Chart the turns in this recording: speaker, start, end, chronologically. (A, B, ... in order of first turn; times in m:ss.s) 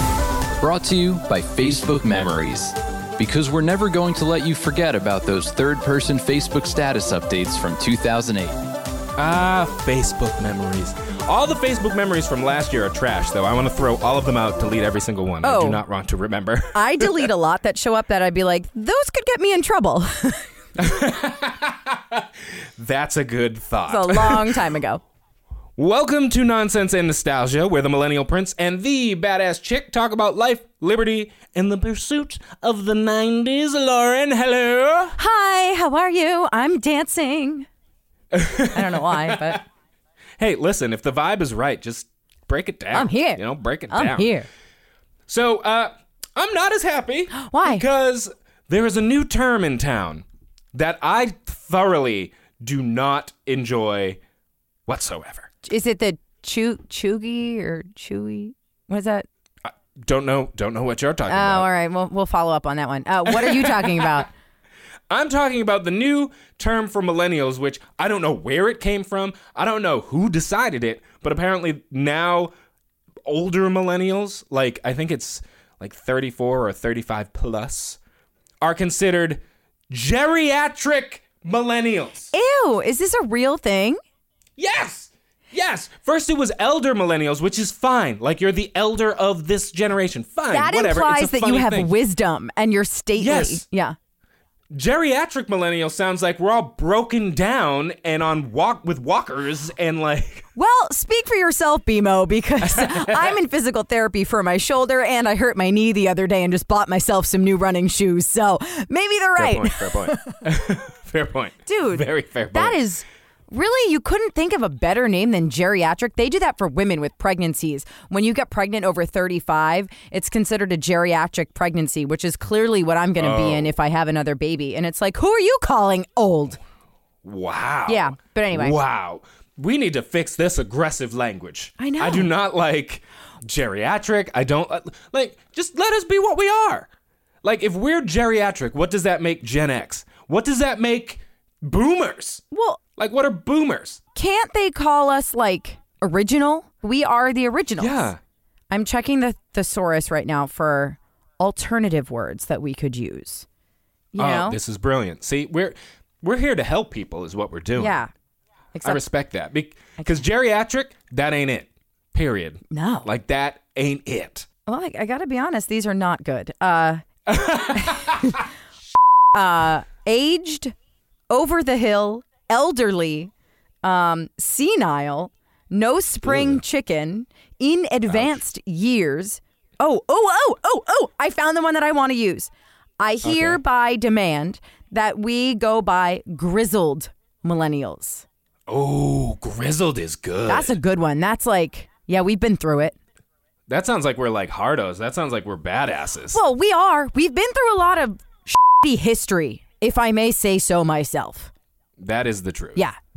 0:00.6-0:08.6 A
0:09.2-0:17.3 B
0:15.4-0:15.8 C
0:16.7-0:20.5 C
0:20.8-0:24.7 B
0:23.9-0:25.0 C
0:25.8-0:35.2 B
0:35.2-0:37.6 C
0:38.3-0:39.6 B
0:38.7-0:39.6 C
0:40.4-0:44.3 B
0:42.9-0:44.5 C
0:45.3-0:54.2 B
0:47.3-0:47.8 C
0:54.8-0:55.5 B
0:55.6-0:59.3 C
0:59.6-1:01.7 B
1:01.3-1:04.3 C
1:03.3-1:04.2 B
1:05.1-1:12.5 B
1:13.2-1:18.0 B
1:18.6-1:22.3 B
1:22.3-1:24.0 C
1:24.6-1:31.9 B
1:30.5-1:33.9 C
1:33.2-1:33.6 B
1:34.7-1:40.4 B
1:40.6-1:50.4 C
1:42.6-1:43.4 B
1:49.4-1:52.8 B
1:51.6-2:06.6 C
2:03.2-2:03.7 B
2:07.2-2:16.9 B
2:07.9-2:08.8 C
2:11.8-2:12.3 C
2:17.4-2:22.4 B
2:22.5-2:22.8 C
2:23.0-2:24.0 B
2:24.1-2:28.1 C
2:27.8-2:28.2 B
2:28.7-2:33.4 C
2:34.1-2:34.6 C
2:34.2-2:38.0 B
2:37.8-2:38.1 C
2:38.7-2:39.0 C
2:38.8-2:44.4 B
2:42.7-2:43.1 C
2:44.6-2:47.0 C
2:47.3-2:48.4 B
2:47.7-2:48.4 C
2:49.3-2:50.7 C
2:51.3-2:53.3 C
2:53.8-3:08.2 C
2:56.3-2:56.6 B
2:58.1-2:58.4 B
3:03.2-3:03.6 B
3:08.7-3:10.8 B
3:10.5-3:13.0 C
3:13.7-3:16.4 B
3:16.3-3:21.5 C
3:22.0-3:22.8 B